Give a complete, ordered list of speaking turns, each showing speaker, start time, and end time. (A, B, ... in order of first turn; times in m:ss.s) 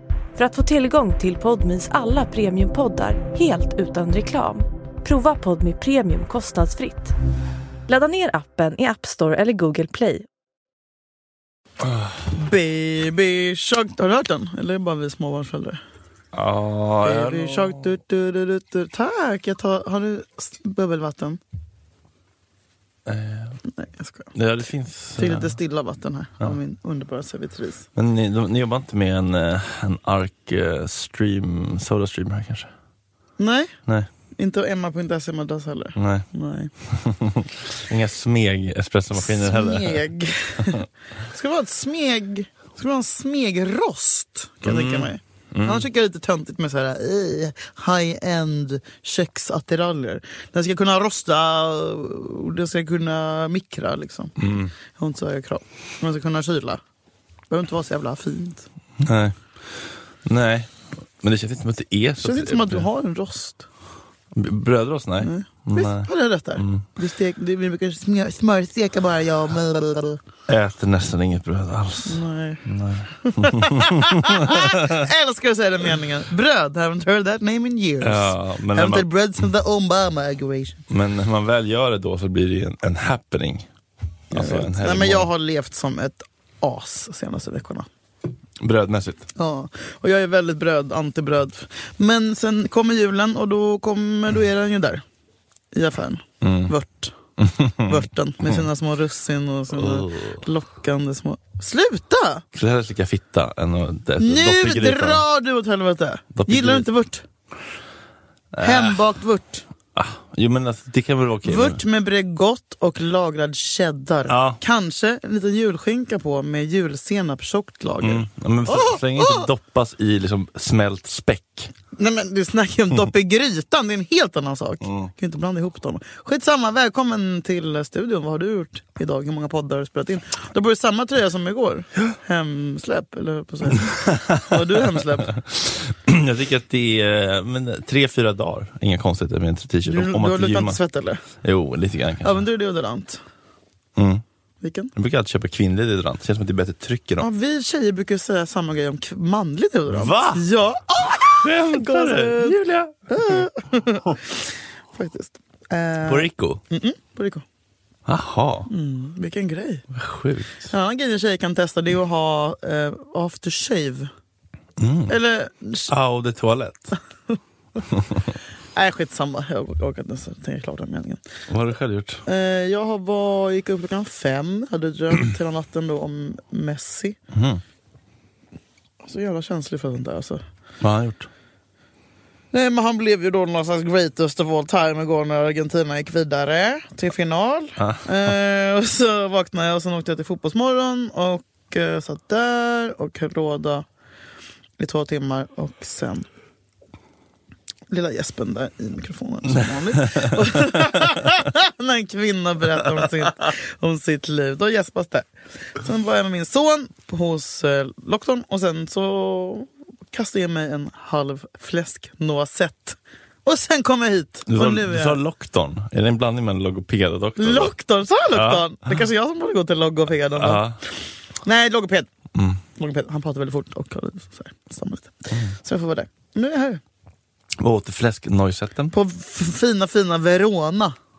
0:00.4-0:07.1 A
0:07.9-0:10.3 A
0:11.8-0:12.3 B
0:12.3-0:15.8 C
0:16.3-0:17.9 B
0:17.0-0:21.4 C
0:23.1-0:23.6 B
0:23.7-0:24.3 C
0:24.3-0:25.6 B
0:25.2-0:27.9 C
0:28.0-0:32.7 B
0:33.4-0:33.7 C
0:34.4-0:36.7 C
0:36.0-0:36.3 B
0:36.9-0:40.0 B
0:39.2-0:54.4 C
0:44.6-0:45.9 B
0:54.4-0:54.7 B
0:54.9-0:56.8 C
0:57.5-0:58.7 C
0:59.0-0:59.4 B
1:00.2-1:02.9 B
1:02.2-1:03.7 C
1:04.3-1:06.9 B
1:05.2-1:10.2 C
1:10.5-1:15.1 B
1:12.1-1:12.6 C
1:13.2-1:20.8 C
1:18.0-1:19.1 B
1:20.9-1:23.7 B
1:24.3-1:25.3 B
1:24.3-1:27.9 C
1:28.6-1:29.3 B
1:29.4-1:35.0 C
1:35.7-1:37.1 C
1:36.4-1:36.7 B
1:37.4-1:38.6 B
1:37.8-1:42.4 C
1:39.7-1:40.4 B
1:42.5-1:45.2 B
1:44.2-1:47.2 C
1:46.4-1:46.9 B
1:48.5-1:49.0 B
1:48.6-1:49.6 C
1:50.0-1:51.8 B
1:51.4-1:59.5 C
1:54.3-1:54.6 B
1:58.0-2:01.7 B
2:02.0-2:15.4 C
2:04.8-2:05.1 B
2:13.8-2:20.8 B
2:19.9-2:21.2 C
2:21.4-2:22.4 B
2:22.2-2:23.2 C
2:24.0-2:24.2 B
2:24.6-2:24.9 C
2:25.0-2:27.3 B
2:27.2-2:37.4 C
2:29.9-2:30.4 B
2:31.4-2:33.4 B
2:36.0-2:36.6 B
2:38.1-2:38.7 B
2:38.7-2:39.8 C
2:39.9-2:40.7 B
2:40.7-2:44.1 C
2:44.8-2:45.2 B
2:45.1-2:45.9 C
2:45.9-2:46.9 B
2:47.9-2:48.2 B
2:48.8-2:51.2 C
2:51.5-2:52.2 B
2:52.3-2:57.2 C
2:57.3-2:57.6 B
2:59.0-3:00.4 C
3:00.8-3:01.3 B
3:02.5-3:13.8 C
3:07.8-3:08.3 B
3:14.8-3:16.3 C
3:17.9-3:25.3 C
3:19.5-3:21.2 B
3:25.8-3:35.2 C
3:34.5-3:37.7 B
3:37.4-3:40.6 C
3:38.3-3:38.7 B
3:40.4-3:40.8 B
3:41.4-3:42.1 C
3:42.4-3:42.6 B
3:42.8-3:46.8 C
3:47.6-3:49.0 B
3:48.9-3:51.0 C